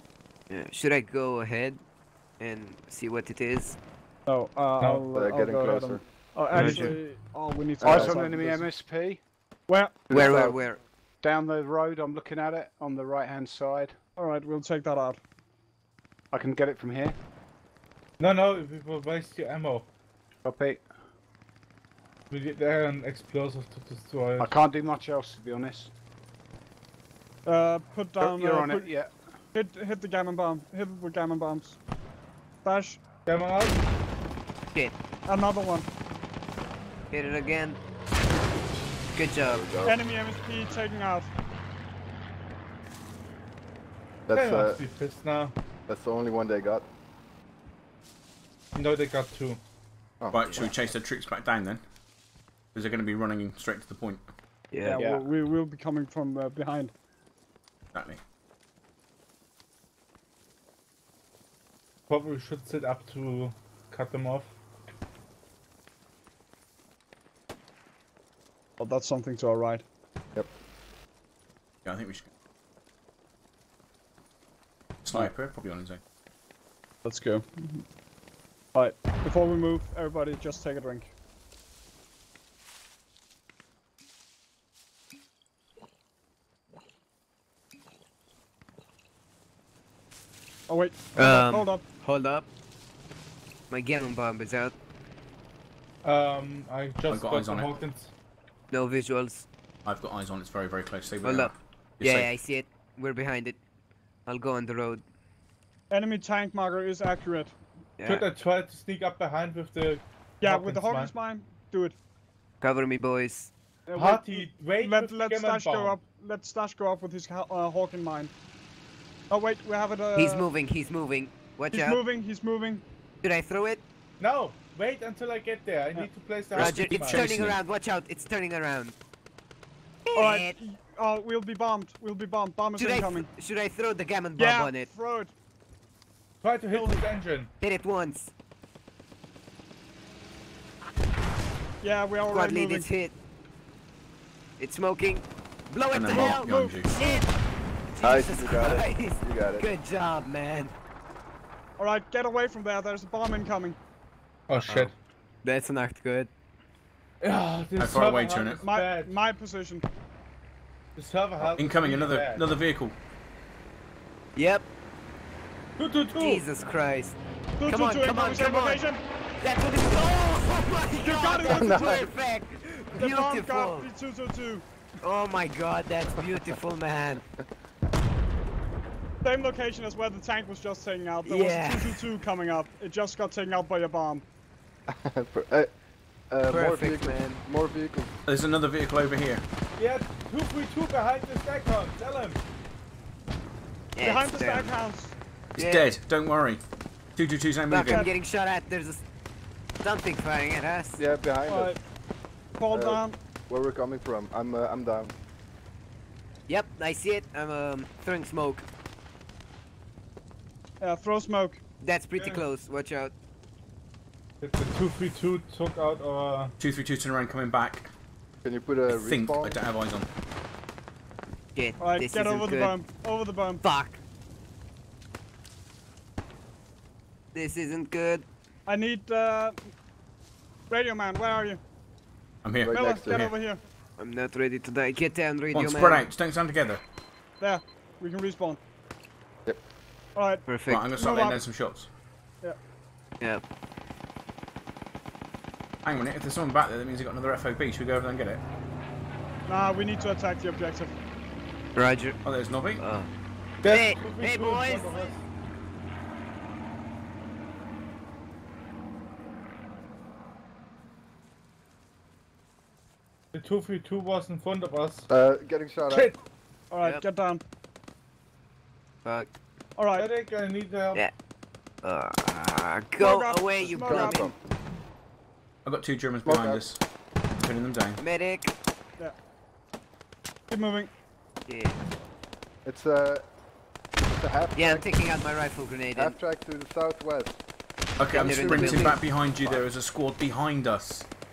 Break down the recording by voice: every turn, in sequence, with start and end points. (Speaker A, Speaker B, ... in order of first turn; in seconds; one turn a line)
Speaker A: 0.5-1.8
Speaker A: 2.4-3.8
Speaker B: 4.3-8.7
Speaker C: 5.1-6.0
Speaker D: 6.5-6.9
Speaker A: 6.5-6.9
Speaker C: 7.8-8.1
Speaker E: 7.8-9.2
Speaker B: 9.7-10.0
Speaker C: 10.1-10.6
Speaker A: 10.1-10.8
Speaker E: 11.2-13.9
Speaker B: 14.2-15.2
Speaker E: 16.3-17.1
Speaker D: 18.2-19.9
Speaker E: 20.4-20.8
Speaker D: 22.3-24.5
Speaker E: 24.4-25.9
Speaker B: 27.4-28.9
Speaker E: 28.2-29.1
Speaker B: 29.5-31.8
Speaker B: 32.6-33.0
Speaker D: 33.2-33.8
Speaker B: 35.3-35.9
Speaker A: 37.1-37.8
Speaker A: 39.1-39.6
Speaker C: 39.4-40.0
Speaker B: 39.8-41.3
Speaker C: 44.3-44.8
Speaker D: 44.3-45.5
Speaker C: 45.9-46.9
Speaker D: 48.7-49.6
Speaker C: 50.2-50.6
Speaker F: 50.3-51.8
Speaker F: 52.7-54.2
Speaker A: 54.7-55.0
Speaker B: 54.8-56.9
Speaker E: 54.9-55.2
Speaker F: 57.9-58.2
Speaker D: 62.1-64.5
Speaker B: 68.8-69.8
Speaker F: 71.8-72.3
Speaker F: 75.0-76.0
Speaker B: 77.0-77.8
Speaker B: 78.7-81.1
Speaker B: 90.7-91.8
Speaker A: 91.2-92.5
Speaker A: 93.7-94.7
Speaker D: 96.0-98.1
Speaker F: 97.1-97.8
Speaker A: 98.7-99.5
Speaker F: 99.8-102.3
Speaker A: 101.2-103.6
Speaker A: 104.2-105.0
Speaker B: 105.9-107.5
Speaker A: 108.0-108.2
Speaker D: 108.0-111.1
Speaker B: 110.4-112.0
Speaker A: 112.6-113.5
Speaker B: 113.9-118.3
Speaker D: 113.9-116.0
Speaker B: 119.3-120.5
Speaker A: 120.2-122.0
Speaker B: 121.7-122.8
Speaker A: 123.2-123.8
Speaker D: 124.2-127.5
Speaker F: 126.5-127.6
Speaker A: 126.5-128.9
Speaker A: 130.1-130.6
Speaker B: 130.1-133.2
Speaker A: 132.8-134.9
Speaker B: 134.4-135.3
Speaker D: 136.4-137.5
Speaker B: 136.7-137.0
Speaker A: 137.6-138.3
Speaker B: 141.8-142.9
Speaker A: 142.3-143.1
Speaker A: 144.6-147.3
Speaker F: 145.9-146.9
Speaker B: 146.1-146.8
Speaker A: 147.9-150.7
Speaker C: 148.0-149.6
Speaker B: 151.8-153.8
Speaker D: 154.5-154.9
Speaker A: 155.4-156.3
Speaker D: 157.2-159.1
Speaker F: 157.8-158.6
Speaker B: 158.6-159.8
Speaker D: 160.9-162.5
Speaker F: 161.4-162.9
Speaker A: 164.3-164.7
Speaker D: 165.8-166.4
Speaker A: 166.1-167.2
Speaker B: 167.6-169.0
Speaker A: 167.7-168.8
Speaker A: 169.4-173.9
Speaker B: 171.0-172.0
Speaker C: 171.5-172.0
Speaker B: 172.9-174.7
Speaker A: 175.0-177.2
Speaker B: 179.2-184.2
Speaker A: 181.2-182.0
Speaker C: 184.9-185.7
Speaker C: 186.3-188.1
Speaker A: 186.5-187.2
Speaker F: 188.3-189.4
Speaker D: 189.8-192.4
Speaker A: 193.9-194.7
Speaker B: 194.0-195.1
Speaker A: 195.6-195.8
Speaker F: 195.6-196.6
Speaker F: 197.2-198.1
Speaker A: 197.7-199.0
Speaker A: 199.8-201.0
Speaker C: 201.0-201.8
Speaker B: 201.5-201.8
Speaker B: 202.6-203.2
Speaker C: 202.7-205.1
Speaker A: 206.5-208.7
Speaker B: 210.8-211.6
Speaker A: 211.8-213.1
Speaker D: 212.2-212.4
Speaker D: 214.4-216.5
Speaker F: 216.6-217.9
Speaker C: 218.4-219.6
Speaker F: 218.9-220.1
Speaker A: 221.5-222.7
Speaker B: 221.8-223.6
Speaker A: 223.6-224.0
Speaker A: 227.3-228.2
Speaker B: 228.7-229.6
Speaker B: 230.7-231.6
Speaker F: 232.4-233.3
Speaker C: 232.6-233.2
Speaker B: 232.7-233.6
Speaker A: 234.0-236.0
Speaker F: 235.5-236.8
Speaker B: 237.4-238.6
Speaker B: 240.2-241.4
Speaker A: 240.5-240.8
Speaker F: 240.7-241.9
Speaker F: 245.8-248.4
Speaker B: 249.5-250.9
Speaker A: 251.8-252.2
Speaker F: 252.2-252.8
Speaker A: 252.8-253.1
Speaker D: 253.6-255.2
Speaker A: 253.6-255.1
Speaker D: 263.3-265.1
Speaker C: 265.1-266.1
Speaker D: 265.9-266.2
Speaker B: 266.7-267.4
Speaker B: 269.8-270.1
Speaker D: 269.9-271.0
Speaker A: 271.8-274.3
Speaker B: 273.0-274.3
Speaker C: 273.6-274.3
Speaker F: 275.6-276.8
Speaker C: 276.2-276.6
Speaker F: 277.4-278.0
Speaker A: 278.0-278.5
Speaker B: 280.5-280.9
Speaker A: 281.5-281.8
Speaker C: 282.6-283.2
Speaker C: 284.0-284.8
Speaker A: 284.6-286.2
Speaker C: 285.9-287.4
Speaker F: 288.0-291.1
Speaker A: 288.1-289.0
Speaker C: 288.5-288.8